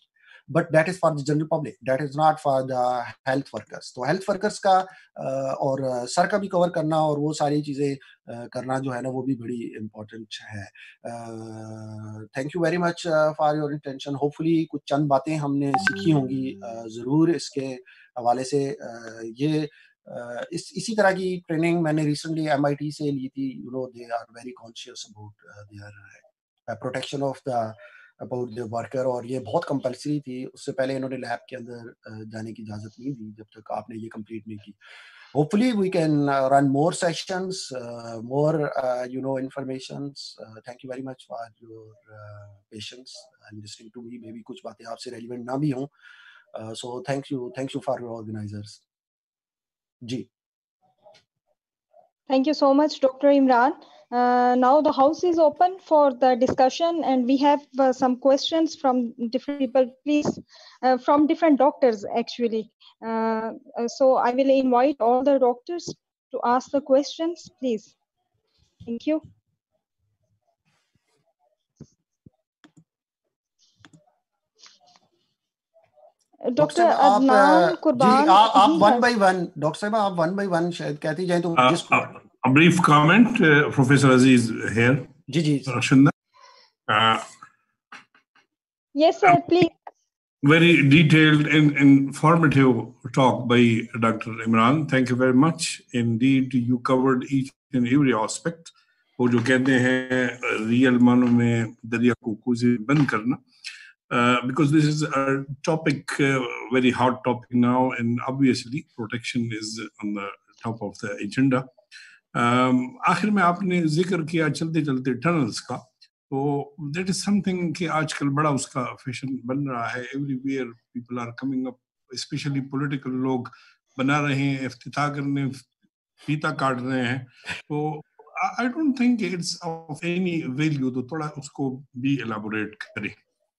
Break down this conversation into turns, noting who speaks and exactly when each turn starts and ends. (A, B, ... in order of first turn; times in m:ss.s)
0:00.5-0:34.8 A
0:35.3-0:45.9 A
0:46.5-0:48.8 A
0:50.0-0:50.3 A
0:52.3-1:07.9 B
1:08.8-1:09.2 B
1:16.4-1:19.1 B
1:16.6-1:22.1 A
1:21.6-1:25.1 C
1:25.3-1:25.8 A
1:25.7-1:26.1 C
1:26.9-1:27.3 C
1:28.9-1:29.7 B
1:30.4-1:43.4 C
1:44.1-1:51.7 C
1:52.3-2:05.7 C
2:06.2-2:13.2 C